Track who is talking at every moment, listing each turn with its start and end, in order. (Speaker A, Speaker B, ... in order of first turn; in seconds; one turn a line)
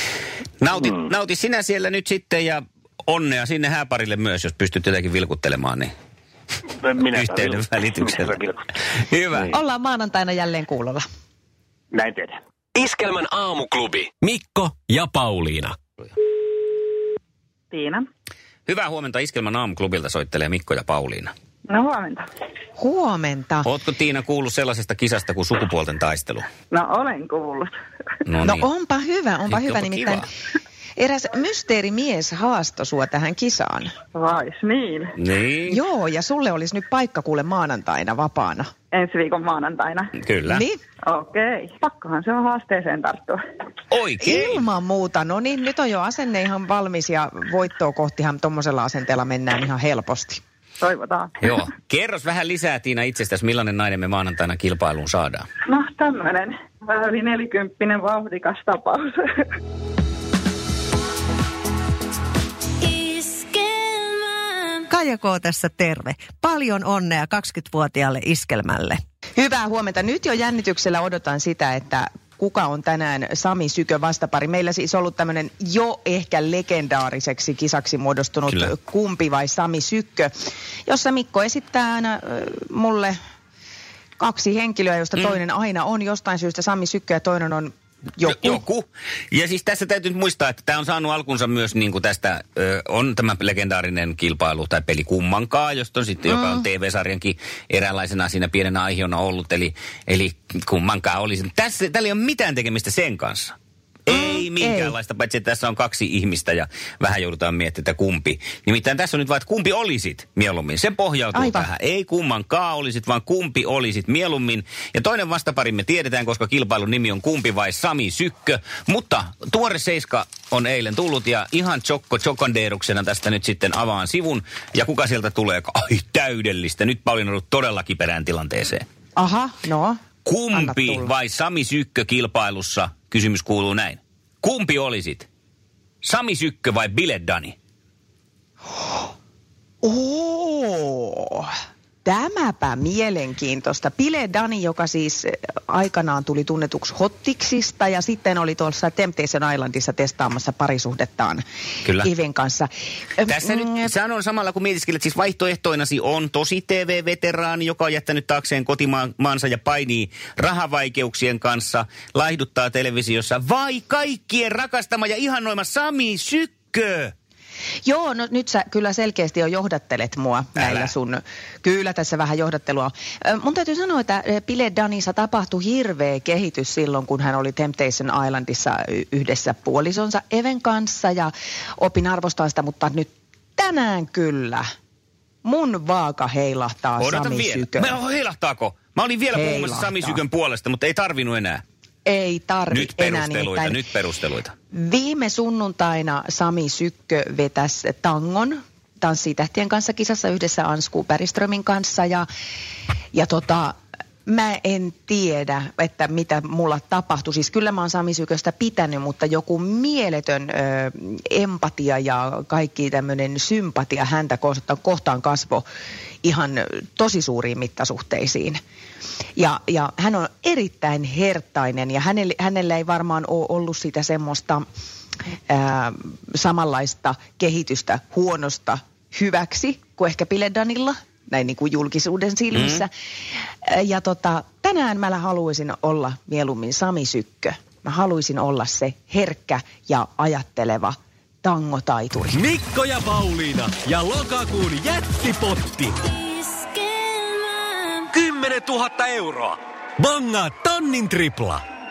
Speaker A: 0.6-5.9
Speaker B: 6.8-8.7
Speaker A: 7.1-8.4
Speaker A: 8.9-9.5
Speaker C: 9.5-11.0
Speaker B: 11.9-12.4
Speaker D: 12.8-15.8
Speaker E: 17.7-18.1
Speaker A: 18.7-21.3
Speaker E: 21.7-22.3
Speaker C: 22.8-23.7
Speaker A: 23.6-26.5
Speaker E: 26.7-27.7
Speaker A: 28.3-28.7
Speaker C: 28.4-30.3
Speaker A: 29.5-30.3
Speaker C: 31.0-33.9
Speaker E: 34.1-35.1
Speaker A: 35.2-35.8
Speaker C: 35.7-38.7
Speaker E: 38.9-40.1
Speaker A: 40.2-40.7
Speaker C: 40.5-40.8
Speaker E: 41.0-43.4
Speaker A: 43.9-44.6
Speaker C: 44.2-50.4
Speaker E: 50.8-51.5
Speaker A: 51.4-55.5
Speaker E: 55.7-59.2
Speaker F: 62.8-64.8
Speaker G: 64.9-69.0
Speaker C: 69.4-80.3
Speaker C: 80.9-83.2
Speaker C: 84.2-88.6
Speaker A: 88.2-103.5
Speaker C: 96.3-96.7
Speaker A: 104.1-128.8
Speaker C: 104.1-105.0
Speaker C: 111.3-111.7
Speaker C: 129.2-130.0
Speaker A: 130.2-135.3
Speaker C: 130.5-131.1
Speaker A: 136.0-137.6
Speaker C: 139.8-141.5
Speaker C: 142.0-153.9
Speaker A: 153.3-167.1
Speaker C: 167.8-184.6
Speaker A: 170.6-170.9
Speaker C: 185.4-188.0
Speaker A: 187.0-191.6
Speaker C: 189.3-190.2
Speaker C: 192.1-193.8
Speaker A: 192.7-194.5
Speaker C: 194.7-202.3
Speaker C: 203.1-203.8
Speaker C: 204.3-215.6
Speaker C: 216.2-218.6
Speaker C: 219.4-224.7
Speaker C: 225.5-232.9
Speaker A: 232.5-232.8
Speaker C: 233.7-242.4
Speaker D: 242.3-246.0
Speaker F: 246.2-248.0
Speaker D: 248.1-251.6